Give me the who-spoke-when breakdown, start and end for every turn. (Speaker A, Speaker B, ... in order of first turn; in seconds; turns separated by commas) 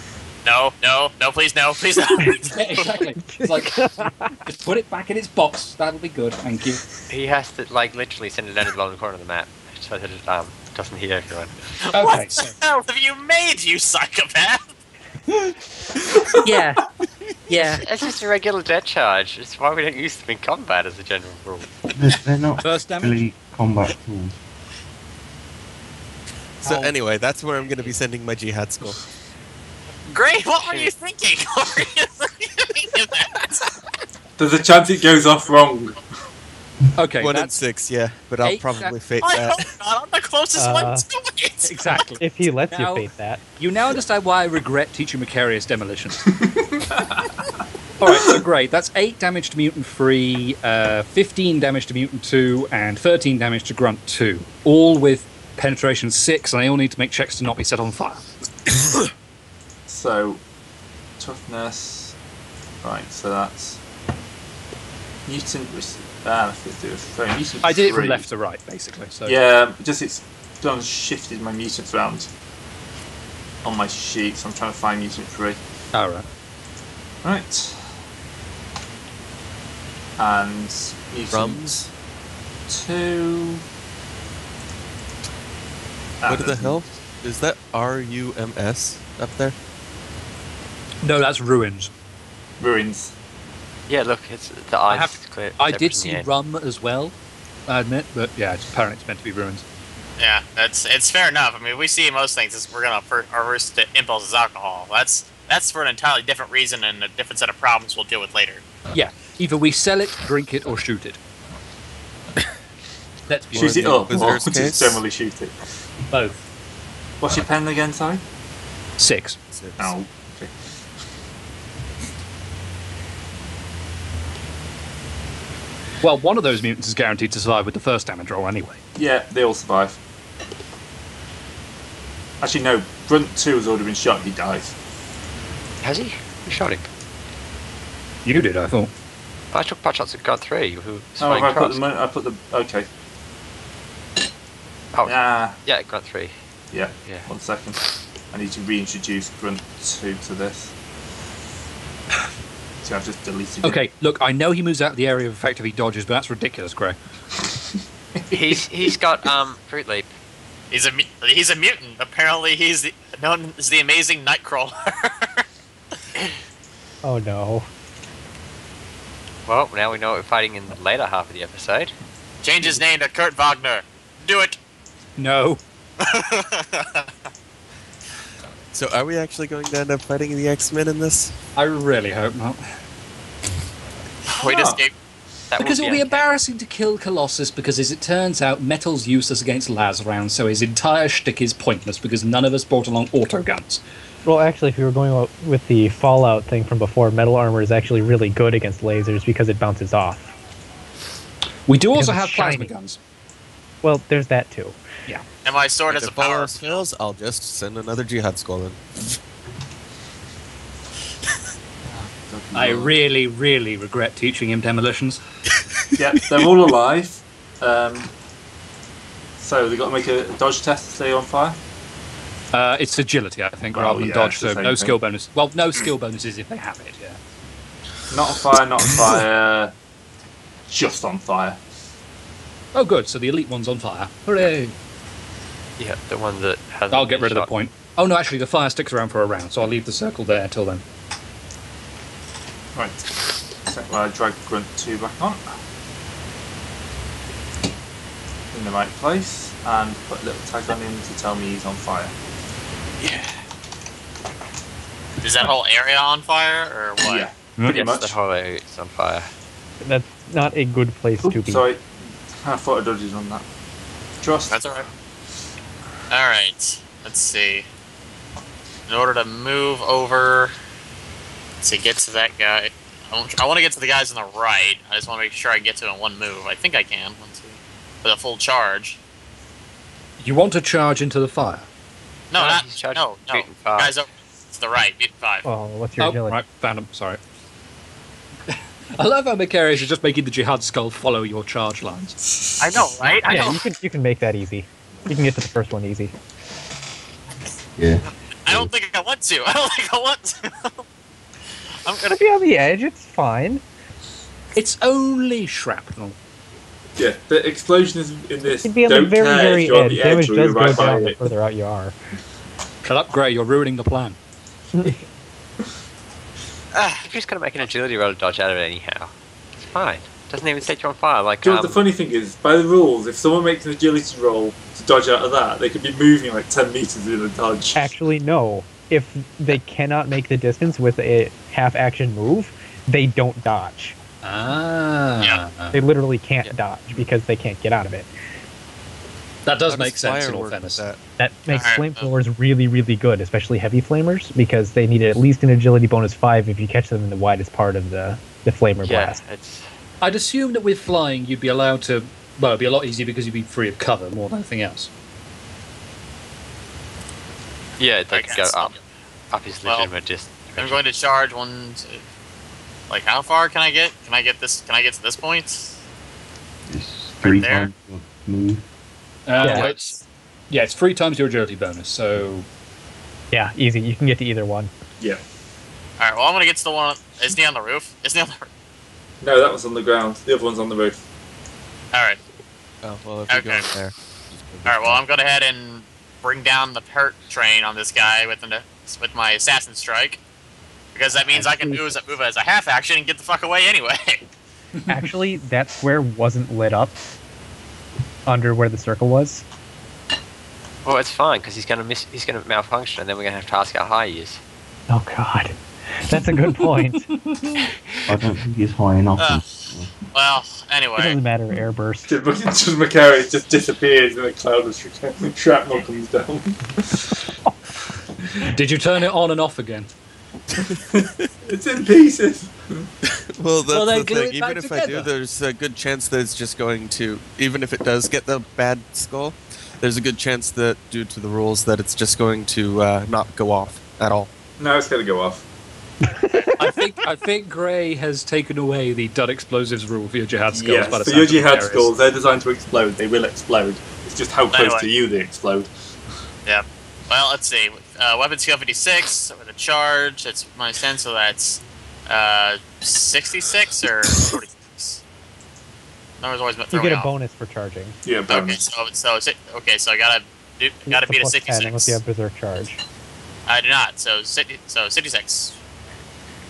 Speaker A: 0.4-2.9, Speaker B: 2.2-6.8, Speaker C: 3.3-4.3, Speaker D: 7.1-11.6, Speaker A: 11.9-14.7, Speaker B: 11.9-12.6, Speaker B: 16.4-16.8, Speaker B: 17.5-17.8, Speaker D: 17.6-21.8, Speaker E: 21.9-24.3, Speaker B: 22.6-23.2, Speaker F: 26.6-29.0, Speaker A: 30.1-33.6, Speaker D: 30.6-30.9, Speaker G: 34.4-36.0, Speaker B: 37.0-37.6, Speaker F: 37.2-39.6, Speaker B: 38.4-38.9, Speaker A: 39.2-42.0, Speaker C: 40.6-41.0, Speaker B: 41.6-46.2, Speaker C: 42.2-43.4, Speaker B: 48.0-58.3, Speaker G: 48.1-48.4, Speaker G: 59.9-60.4, Speaker G: 61.2-62.1, Speaker G: 62.8-63.8, Speaker G: 65.2-68.3, Speaker B: 67.6-69.4, Speaker G: 69.2-72.3, Speaker G: 73.6-75.6, Speaker B: 75.9-76.2, Speaker G: 77.2-77.9, Speaker G: 80.2-81.9, Speaker F: 81.3-81.8, Speaker G: 82.7-83.6, Speaker G: 86.2-86.8, Speaker F: 86.3-89.5, Speaker B: 91.0-91.9, Speaker G: 92.6-93.1, Speaker D: 93.9-96.3, Speaker B: 94.9-97.1, Speaker B: 97.7-99.6, Speaker A: 100.2-108.6, Speaker B: 108.9-111.2, Speaker B: 113.3-114.1, Speaker G: 113.5-115.7, Speaker F: 113.5-115.0, Speaker B: 116.1-116.4, Speaker G: 117.2-118.2, Speaker B: 119.0-119.4, Speaker F: 119.5-119.9, Speaker G: 119.8-120.6, Speaker B: 126.0-128.8, Speaker G: 128.9-130.0, Speaker G: 132.4-134.7, Speaker D: 135.8-136.9, Speaker B: 138.2-138.9, Speaker D: 139.5-141.8, Speaker G: 141.2-142.9, Speaker D: 144.9-146.3, Speaker G: 145.1-145.6, Speaker G: 146.7-147.8, Speaker D: 147.0-147.3, Speaker G: 148.3-150.7, Speaker G: 152.8-153.8, Speaker B: 153.6-157.0, Speaker D: 158.3-160.1, Speaker A: 160.7-165.4, Speaker C: 167.0-167.7, Speaker D: 169.4-171.9, Speaker A: 172.4-174.6, Speaker B: 175.2-175.6, Speaker A: 176.0-177.1, Speaker F: 178.7-181.3, Speaker B: 181.5-182.6, Speaker A: 184.3-184.9, Speaker G: 184.4-184.8, Speaker D: 185.5-186.3, Speaker B: 185.6-193.8, Speaker C: 194.2-200.3, Speaker B: 201.7-203.0, Speaker C: 201.9-202.7, Speaker C: 203.8-204.8, Speaker A: 205.4-206.8, Speaker F: 205.9-208.8, Speaker G: 211.9-213.0, Speaker B: 212.5-215.2, Speaker G: 216.0-218.1, Speaker G: 219.4-221.6, Speaker B: 222.5-227.2, Speaker G: 223.7-225.0, Speaker G: 228.1-229.7, Speaker G: 230.7-231.6, Speaker B: 232.7-234.7, Speaker D: 235.8-237.5, Speaker B: 236.9-240.8, Speaker G: 242.7-243.1, Speaker G: 243.6-245.4, Speaker G: 248.5-252.1, Speaker F: 253.0-253.3, Speaker A: 255.2-257.3, Speaker G: 257.0-258.1, Speaker D: 257.6-259.3, Speaker C: 259.8-261.6, Speaker G: 261.2-263.4, Speaker G: 264.2-264.8, Speaker A: 264.5-264.9, Speaker A: 266.1-267.6, Speaker A: 268.9-270.5, Speaker A: 271.6-279.0, Speaker B: 280.2-281.7, Speaker A: 282.3-285.4, Speaker D: 282.3-284.0, Speaker C: 285.4-286.4, Speaker B: 286.0-287.2, Speaker B: 288.5-292.2, Speaker A: 292.6-293.6, Speaker C: 293.3-296.1, Speaker E: 297.8-298.7, Speaker A: 298.4-300.8, Speaker A: 301.8-302.2, Speaker C: 302.1-303.6, Speaker B: 304.5-306.1, Speaker G: 307.0-311.2, Speaker C: 308.6-312.0, Speaker B: 312.8-314.2, Speaker C: 314.7-315.0, Speaker D: 316.8-321.8, Speaker G: 321.4-327.8, Speaker C: 327.7-334.0, Speaker B: 334.2-335.8, Speaker C: 335.7-338.1, Speaker B: 339.4-340.8, Speaker F: 339.6-341.0, Speaker C: 341.2-349.2, Speaker A: 341.5-342.1, Speaker D: 348.8-349.7, Speaker B: 350.0-354.9, Speaker D: 357.8-360.8, Speaker A: 358.1-358.8, Speaker A: 359.6-359.9, Speaker A: 360.6-362.0, Speaker A: 362.9-365.8, Speaker E: 366.7-368.6, Speaker A: 367.2-367.7, Speaker B: 369.2-370.0, Speaker A: 369.4-370.0, Speaker C: 369.4-369.7, Speaker B: 370.5-372.5, Speaker C: 373.3-374.7, Speaker A: 376.0-378.5, Speaker G: 379.2-381.0, Speaker A: 381.9-382.2, Speaker F: 382.8-385.0, Speaker A: 383.3-383.6, Speaker A: 384.6-390.2, Speaker A: 390.9-394.2, Speaker C: 391.3-391.9, Speaker B: 394.8-395.1, Speaker C: 394.9-396.9, Speaker C: 398.2-399.4, Speaker D: 400.8-404.4, Speaker C: 404.9-407.1, Speaker B: 406.6-407.6, Speaker E: 408.1-409.9, Speaker A: 409.2-411.2, Speaker C: 411.0-412.1, Speaker G: 412.1-417.1, Speaker B: 418.4-419.9, Speaker F: 420.5-421.3, Speaker G: 421.4-422.9, Speaker F: 423.1-434.3, Speaker B: 423.7-425.1, Speaker G: 434.6-435.4, Speaker C: 436.0-436.7, Speaker B: 436.6-442.0, Speaker G: 440.5-445.7, Speaker A: 444.5-444.9, Speaker A: 446.4-455.0, Speaker A: 456.2-457.1, Speaker C: 456.7-457.9, Speaker G: 458.0-458.6, Speaker A: 458.3-462.0, Speaker C: 460.9-462.8, Speaker A: 463.4-465.6